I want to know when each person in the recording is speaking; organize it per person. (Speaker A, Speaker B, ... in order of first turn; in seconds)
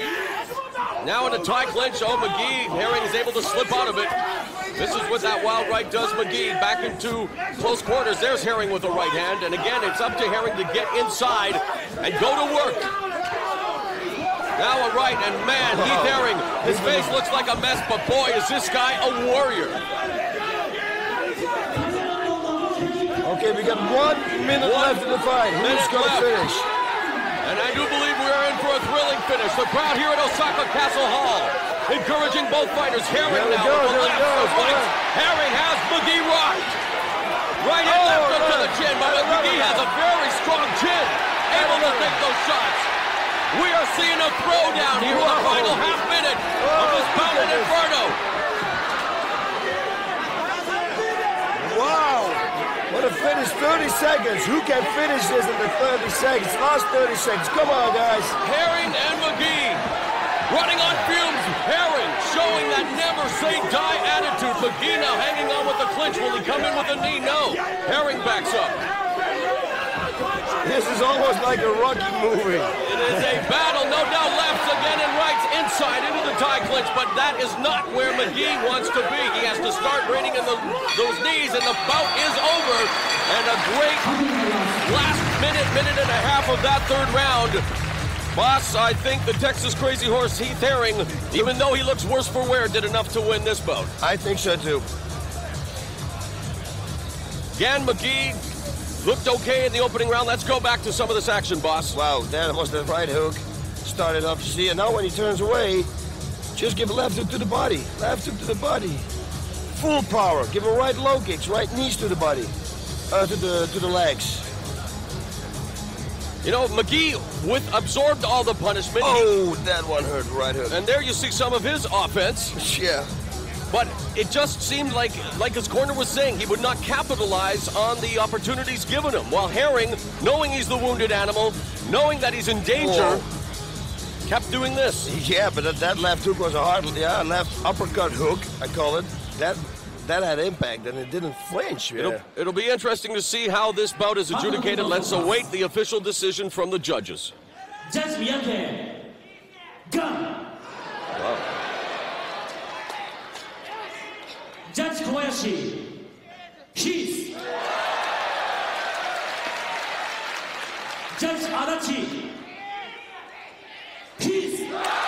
Speaker A: 1.0-4.2, 4.7-12.9, 14.6-19.8, 24.6-26.4, 27.4-36.8, 37.6-42.9, 43.5-48.2, 58.4-59.9, 60.5-68.8, 72.8-87.7, 88.3-93.9, 97.6-98.4, 99.0-102.0, 116.4-119.3, 120.7-122.6, 123.7-133.2, 134.3-135.1, 142.0-147.3, 151.2-151.4
Speaker B: 15.7-17.2, 23.2-26.7, 33.2-35.0, 37.8-39.9, 41.5-42.2, 44.9-45.9, 46.6-47.8, 51.5-58.4, 70.6-73.2, 94.0-94.9, 101.9-105.9, 106.5-109.1, 109.7-112.5, 113.1-114.5, 119.0-120.8, 122.5-123.1, 132.7-133.3, 135.1-142.2
Speaker C: 84.3-84.6, 147.9-149.0, 149.9-150.4, 154.7-156.0, 156.8-157.4, 161.1-162.4, 164.2-164.7